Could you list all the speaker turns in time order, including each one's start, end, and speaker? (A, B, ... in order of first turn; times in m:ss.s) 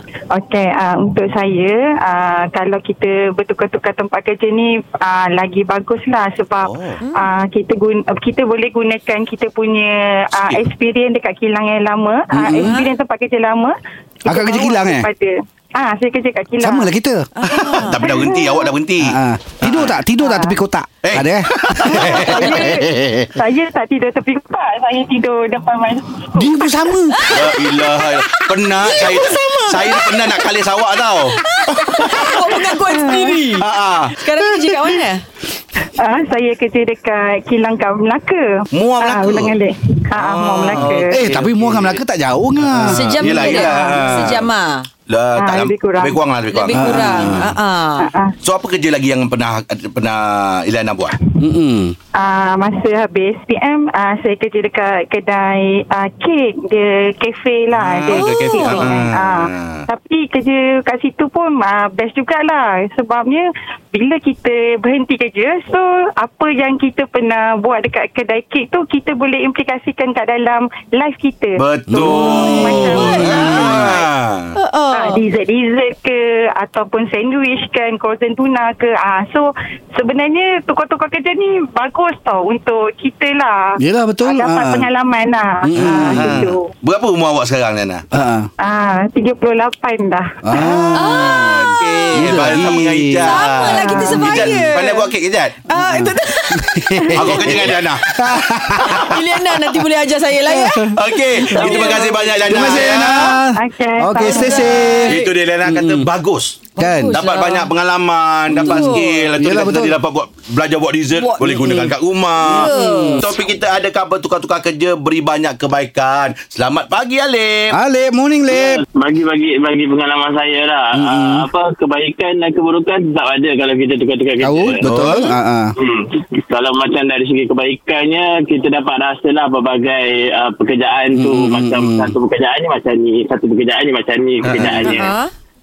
0:00.3-0:16.9 A
0:06.6-0:07.0 B
0:07.0-0:07.3 C
0:12.3-0:12.8 D
0:12.6-0:12.9 C
0:14.3-0:15.1 D
0:16.6-0:17.8 D
0:17.4-0:18.0 C
0:17.5-0:20.0 B
0:18.0-0:18.6 A
0:19.0-0:22.7 D
0:20.2-0:20.6 A
0:21.0-0:23.3 B
0:21.9-0:26.7 A
0:26.4-0:27.3 D
0:27.2-0:27.9 C
0:27.3-0:32.3 B
0:28.8-0:30.5 C
0:31.4-0:35.2 C
0:32.8-0:33.4 A
0:33.5-0:34.2 B
0:36.0-0:41.2 A
0:38.7-0:39.6 B
0:40.2-0:42.0 B
0:41.0-0:43.4 D
0:42.6-0:44.5 B
0:42.9-0:44.9 C
0:43.4-0:44.1 A
0:45.1-0:47.5 B
0:45.4-0:46.2 A
0:46.5-0:48.1 C
0:46.7-0:47.5 D
0:48.0-0:48.4 A
0:48.4-0:51.2 B
0:51.4-0:52.0 D
0:52.2-1:14.0 A
0:57.7-0:59.9 B
0:58.1-0:59.0 C
1:11.6-1:14.6 B
1:11.9-1:13.4 D
1:13.0-1:13.9 C
1:14.6-1:15.2 C
1:14.9-1:26.7 A
1:23.8-1:24.9 D
1:25.6-1:26.5 D
1:25.8-1:28.0 B
1:28.1-1:28.5 D
1:28.6-1:30.4 A
1:30.4-1:31.5 D
1:30.6-1:35.6 B
1:30.9-1:32.6 C
1:32.1-1:34.6 D
1:33.2-1:35.1 C
1:33.9-1:34.2 A
1:35.7-1:37.7 C
1:35.7-1:39.2 D
1:37.1-1:38.1 B
1:38.8-1:39.2 B
1:38.8-1:42.2 C
1:40.4-1:46.1 D
1:40.9-1:43.4 B
1:41.7-1:42.0 A
1:43.5-1:45.1 A
1:45.1-1:57.8 B
1:46.8-1:47.7 C
1:46.8-1:47.2 D
1:48.5-1:50.0 D
1:48.6-1:49.3 C
1:51.1-1:53.3 C
1:52.5-1:53.3 D
1:57.7-1:58.8 D
1:58.5-2:04.8 E
2:00.9-2:01.5 D
2:04.4-2:05.7 D
2:04.8-2:05.2 B
2:05.0-2:05.3 C
2:05.8-2:15.1 E
2:11.1-2:12.2 D
2:14.4-2:15.0 B
2:14.8-2:15.3 C